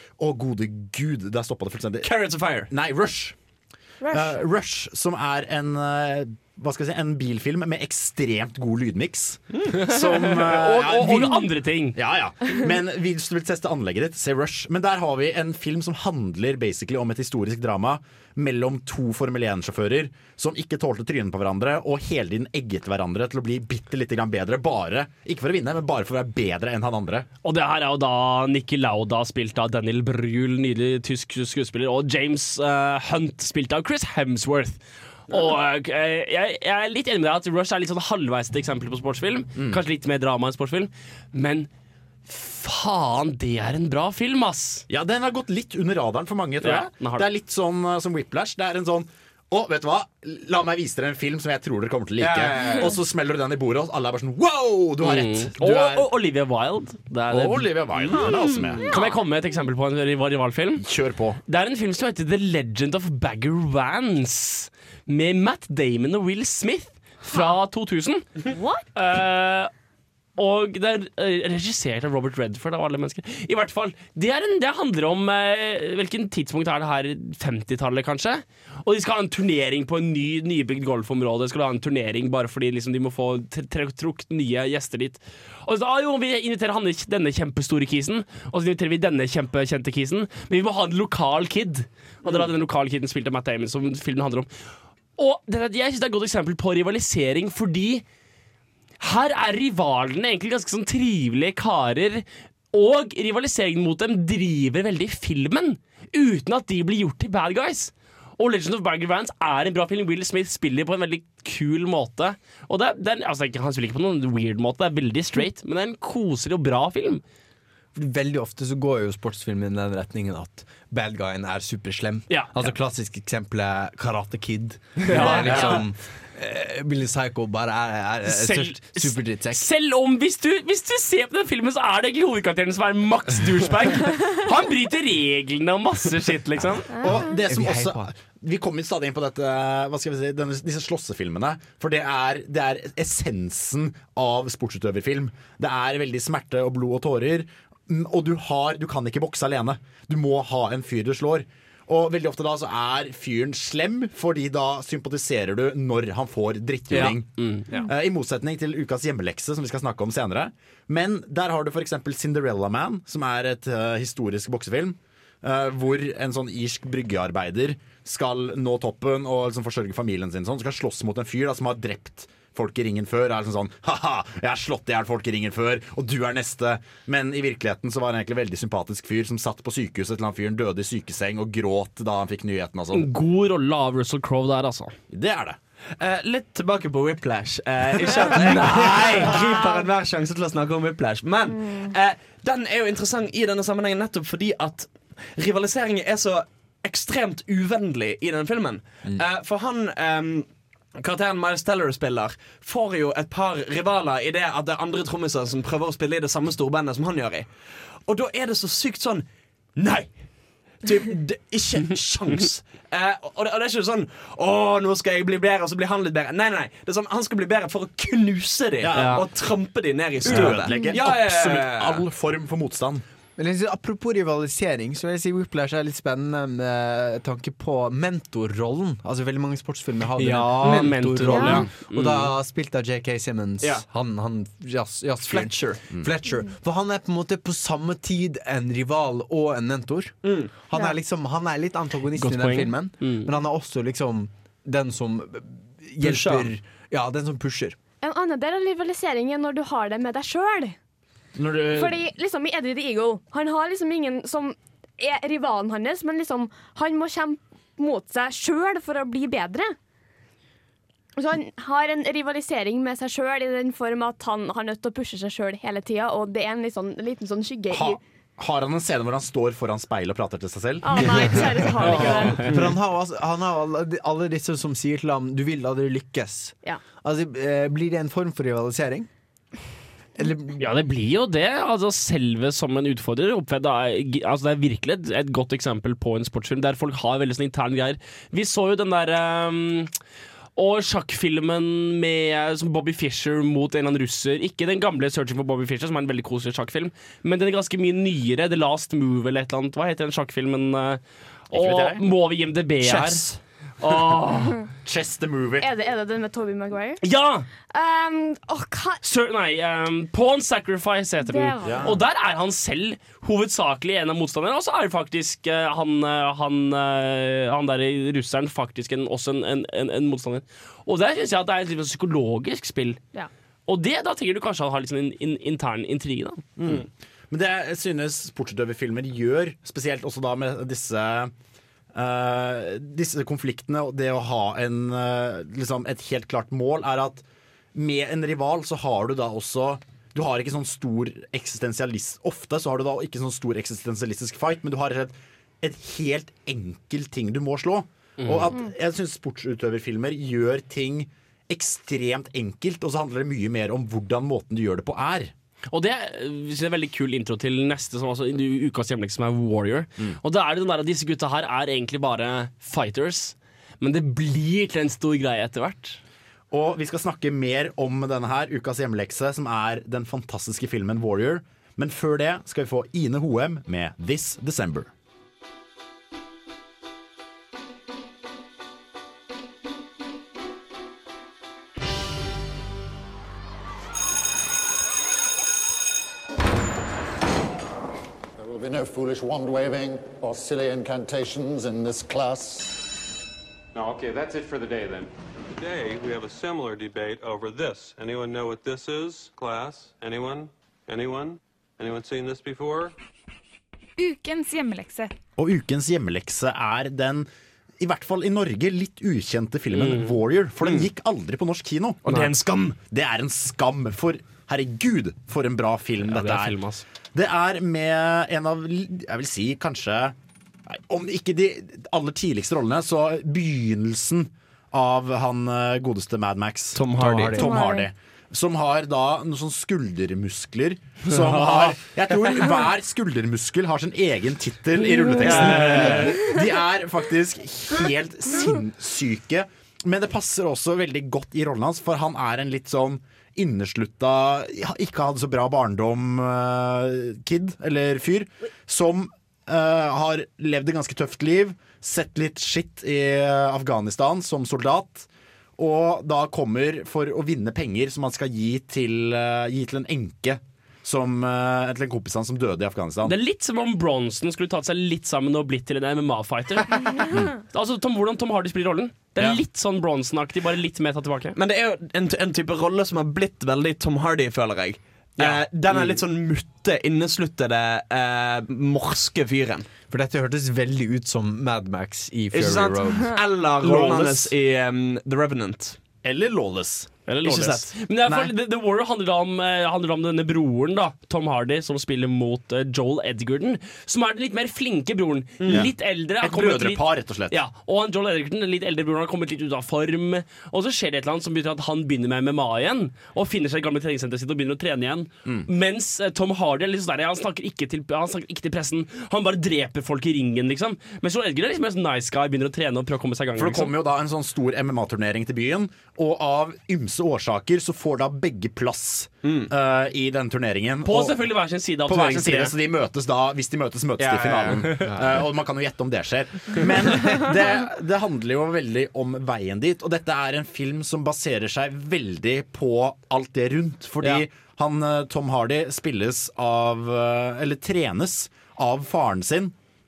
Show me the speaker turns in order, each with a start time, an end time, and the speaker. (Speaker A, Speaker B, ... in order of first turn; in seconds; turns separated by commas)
Speaker A: 0.2-2.1, Speaker B: 2.0-2.7, Speaker A: 2.7-3.4, Speaker C: 4.0-4.3, Speaker A: 4.1-27.3, Speaker D: 9.9-12.0, Speaker D: 27.4-41.7, Speaker A: 39.5-39.8, Speaker D: 42.3-44.9, Speaker A: 44.9-56.1, Speaker D: 46.6-47.3, Speaker B: 52.2-53.0, Speaker D: 55.0-60.8, Speaker A: 57.3-58.9, Speaker C: 58.1-59.2, Speaker A: 60.8-61.4, Speaker D: 61.5-68.2, Speaker C: 68.5-68.8, Speaker D: 68.9-69.7, Speaker D: 70.4-94.5, Speaker D: 95.2-98.0, Speaker D: 99.0-117.2, Speaker E: 117.9-129.7, Speaker D: 122.3-122.7, Speaker D: 125.0-125.8, Speaker A: 125.4-125.8, Speaker D: 128.2-137.0, Speaker C: 136.9-137.3, Speaker A: 137.0-157.3, Speaker E: 137.5-138.1, Speaker D: 156.9-157.7, Speaker A: 157.8-183.1, Speaker D: 182.9-184.9, Speaker A: 185.1-185.6, Speaker B: 186.0-207.5, Speaker D: 188.4-189.7, Speaker B: 208.1-209.2, Speaker B: 209.8-210.2, Speaker B: 210.8-222.0, Speaker A: 218.8-219.2, Speaker D: 218.9-219.2, Speaker A: 220.2-223.0, Speaker D: 220.3-220.6, Speaker C: 220.7-221.0, Speaker E: 223.4-247.8, Speaker D: 230.2-232.3, Speaker C: 231.2-231.6, Speaker B: 235.2-235.8, Speaker B: 240.2-240.5, Speaker C: 240.7-241.0, Speaker D: 242.2-243.3, Speaker B: 246.0-246.5, Speaker C: 248.0-250.8, Speaker A: 251.3-251.9, Speaker C: 251.7-259.7, Speaker C: 261.2-268.0, Speaker A: 267.7-272.1, Speaker C: 270.8-272.4, Speaker E: 271.8-279.1, Speaker D: 271.8-272.6, Speaker E: 280.2-280.9, Speaker D: 280.6-289.9, Speaker D: 290.6-304.7, Speaker A: 301.5-302.0, Speaker A: 304.8-305.7, Speaker C: 305.6-307.0, Speaker D: 307.0-307.4, Speaker C: 307.7-309.0, Speaker D: 309.0-323.0, Speaker C: 311.2-311.8, Speaker A: 311.6-311.9, Speaker D: 323.7-326.4, Speaker A: 326.6-331.3, Speaker A: 331.9-355.3, Speaker D: 348.2-348.5, Speaker D: 355.7-366.0, Speaker A: 366.5-374.9, Speaker F: 388.4-392.9, Speaker G: 393.7-402.9, Speaker C: 404.0-405.1, Speaker A: 405.4-407.3, Speaker A: 407.8-412.0, Speaker D: 409.7-410.1, Speaker B: 412.1-412.8, Speaker A: 412.9-416.6, Speaker D: 416.1-416.8, Speaker A: 417.1-420.1, Speaker A: 420.7-463.1, Speaker E: 426.8-427.5, Speaker C: 427.3-427.9, Speaker D: 431.1-431.7, Speaker C: 434.9-435.2, Speaker D: 435.2-436.3, Speaker B: 435.4-436.0, Speaker D: 463.0-471.4, Speaker B: 471.4-479.7, Speaker E: 479.9-483.2, Speaker B: 482.3-485.8, Speaker D: 483.6-484.3, Speaker A: 486.0-486.9, Speaker D: 487.1-513.7, Speaker B: 487.2-487.7, Speaker A: 488.1-488.3, Speaker B: 495.4-495.7, Speaker A: 495.5-497.4, Speaker A: 513.4-521.2, Speaker B: 519.2-519.5, Speaker D: 520.8-522.5, Speaker A: 521.9-539.5, Speaker B: 524.0-524.4, Speaker D: 524.4-524.9